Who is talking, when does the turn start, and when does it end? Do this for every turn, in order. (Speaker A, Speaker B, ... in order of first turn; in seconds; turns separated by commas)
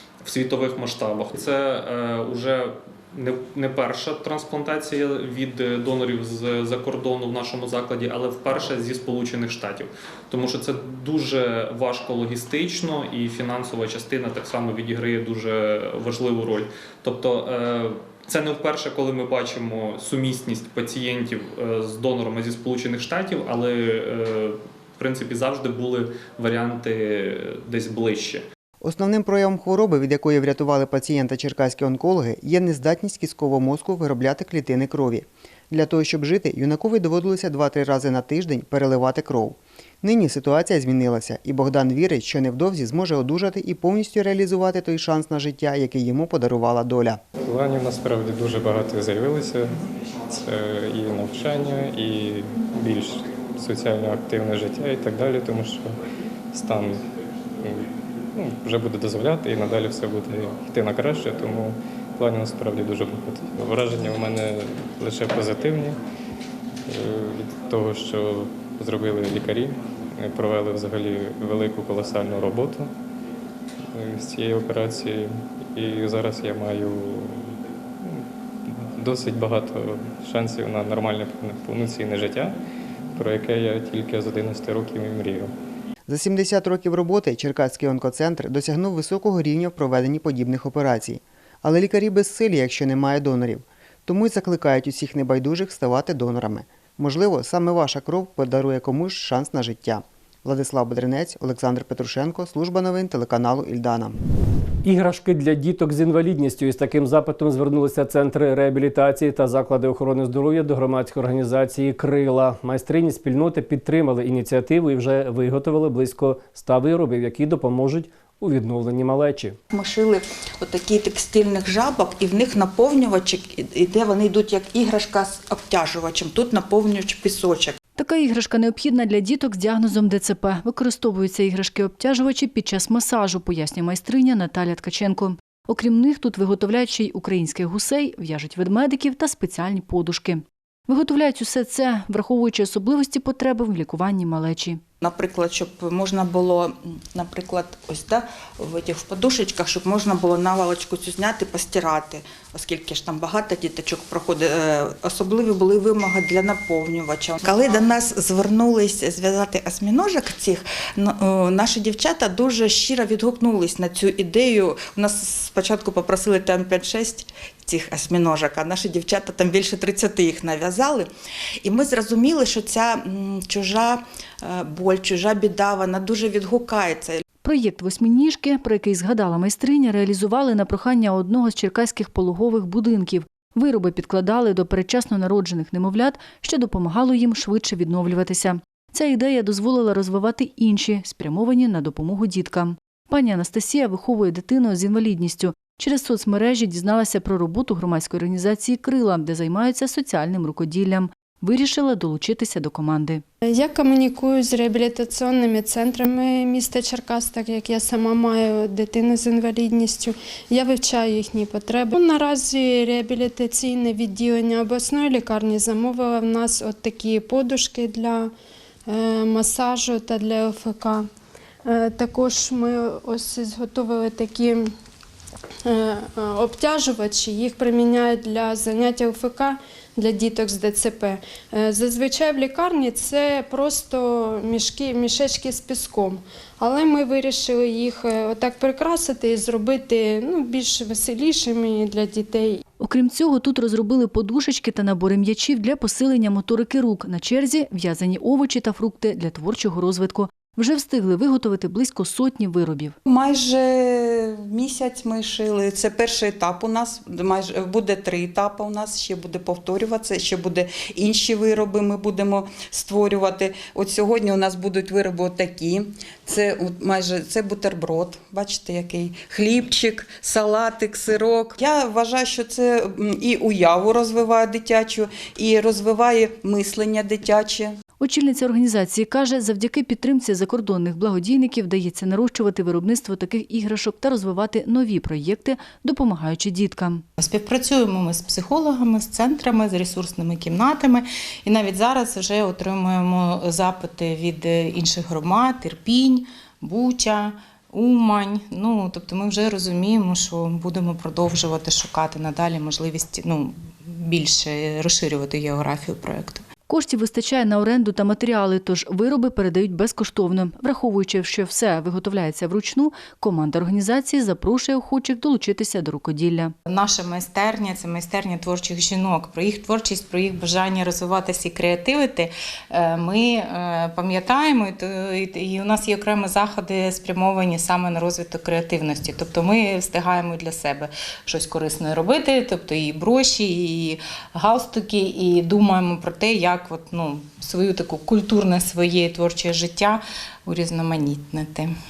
Speaker A: 0.2-28.4, Speaker B: 28.8-47.2, Speaker C: 47.4-56.0, Speaker C: 56.5-57.0, Speaker C: 57.6-66.0, Speaker C: 66.9-72.9, Speaker C: 73.9-82.6, Speaker C: 83.2-85.5, Speaker B: 86.1-104.2, Speaker D: 104.8-119.6, Speaker E: 119.7-127.8, Speaker F: 128.0-144.8, Speaker E: 145.0-171.1, Speaker E: 171.6-177.2, Speaker F: 177.4-203.2, Speaker G: 203.4-218.3, Speaker G: 218.9-221.1, Speaker G: 221.7-224.7, Speaker G: 225.7-242.6, Speaker F: 242.8-253.0, Speaker E: 253.1-277.8, Speaker F: 278.0-287.1, Speaker H: 287.2-306.5, Speaker F: 306.7-316.5, Speaker H: 316.7-341.8